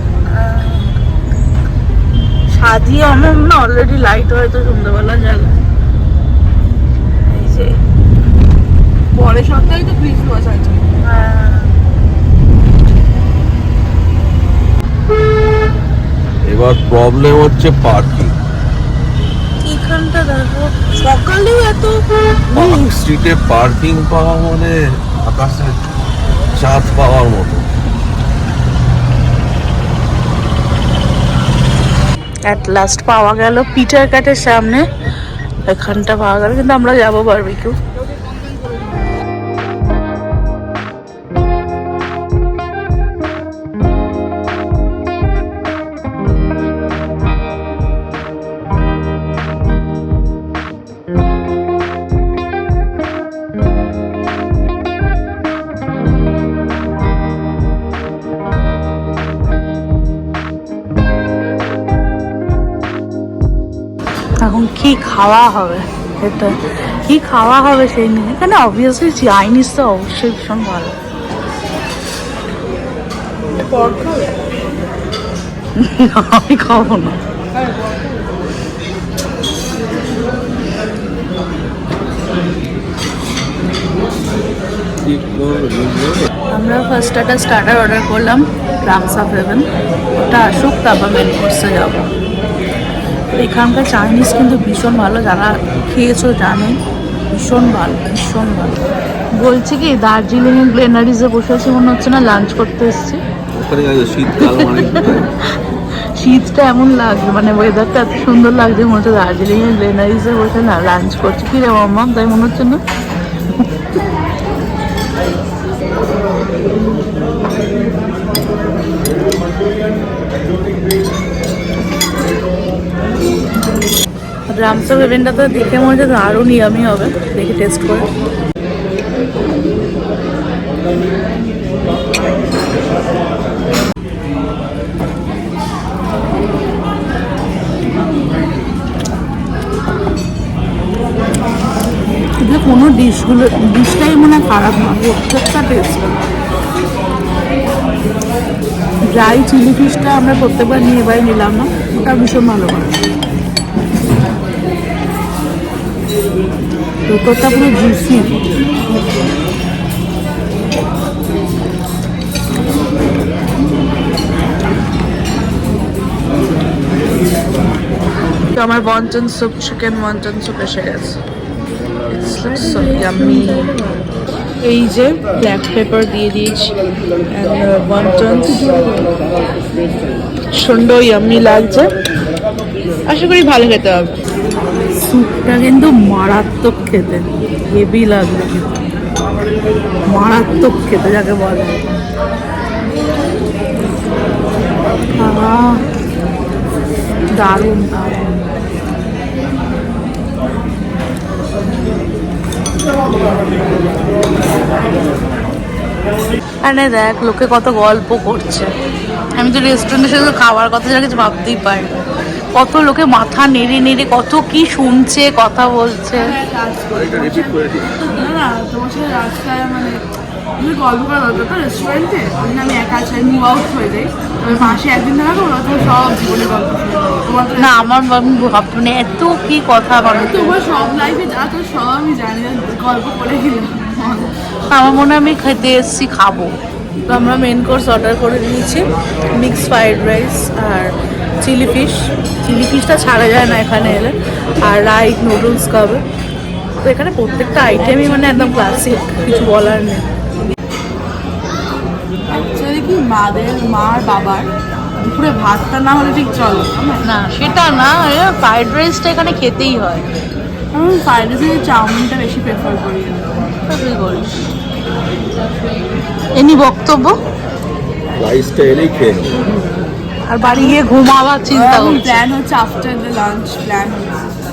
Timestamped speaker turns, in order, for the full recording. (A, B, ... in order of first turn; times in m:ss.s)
0:00.3-0:01.0 A
0:02.5-0:05.6 A
0:07.3-0:07.7 A
0:09.1-0:10.9 B
0:11.0-0:11.8 A
0:16.5-0:18.3 C
0:19.6-0:23.0 A
0:22.5-0:25.8 C
0:26.6-0:27.7 C
0:32.5-0:34.8 A
0:35.7-0:37.8 A
1:04.4-1:11.0 A
1:13.6-1:14.3 B
1:15.8-1:17.2 A
1:17.6-1:18.2 B
1:25.0-1:26.3 C
1:26.5-1:29.6 A
1:30.2-1:32.1 A
1:33.3-1:36.8 A
1:37.3-1:38.8 A
1:39.4-1:43.2 A
1:43.6-1:45.3 C
1:44.4-1:45.6 A
1:46.2-1:52.8 A
2:04.5-2:08.1 A
2:22.4-2:26.2 A
2:29.1-2:33.0 A
2:37.1-2:38.4 A
2:48.6-2:49.2 B
2:48.6-2:50.8 A
2:49.7-2:51.1 B
2:52.1-2:53.8 B
2:52.2-2:54.0 A
2:54.6-2:56.8 A
2:57.3-2:59.1 A
3:00.5-3:01.9 A
3:03.1-3:04.2 B
3:04.9-3:08.8 A
3:10.1-3:11.9 A
3:15.2-3:15.8 A
3:17.4-3:18.3 A
3:26.6-3:28.7 A
3:29.4-3:31.9 A
3:32.5-3:36.3 A
3:36.1-3:40.0 B
3:36.9-3:38.0 C
3:40.6-3:47.9 B
3:44.5-3:44.8 A
3:47.6-3:50.6 A
3:50.1-3:54.4 B
3:54.7-3:56.6 A
3:57.1-4:06.0 A
4:06.8-4:10.0 A
4:07.8-4:09.0 B
4:12.3-4:17.0 B
4:17.0-4:20.1 A
4:20.7-4:23.5 B
4:23.7-4:24.4 A
4:26.4-4:27.2 A
4:28.1-4:29.4 C
4:30.3-4:32.2 A
4:30.5-4:30.8 B
4:31.5-4:34.3 B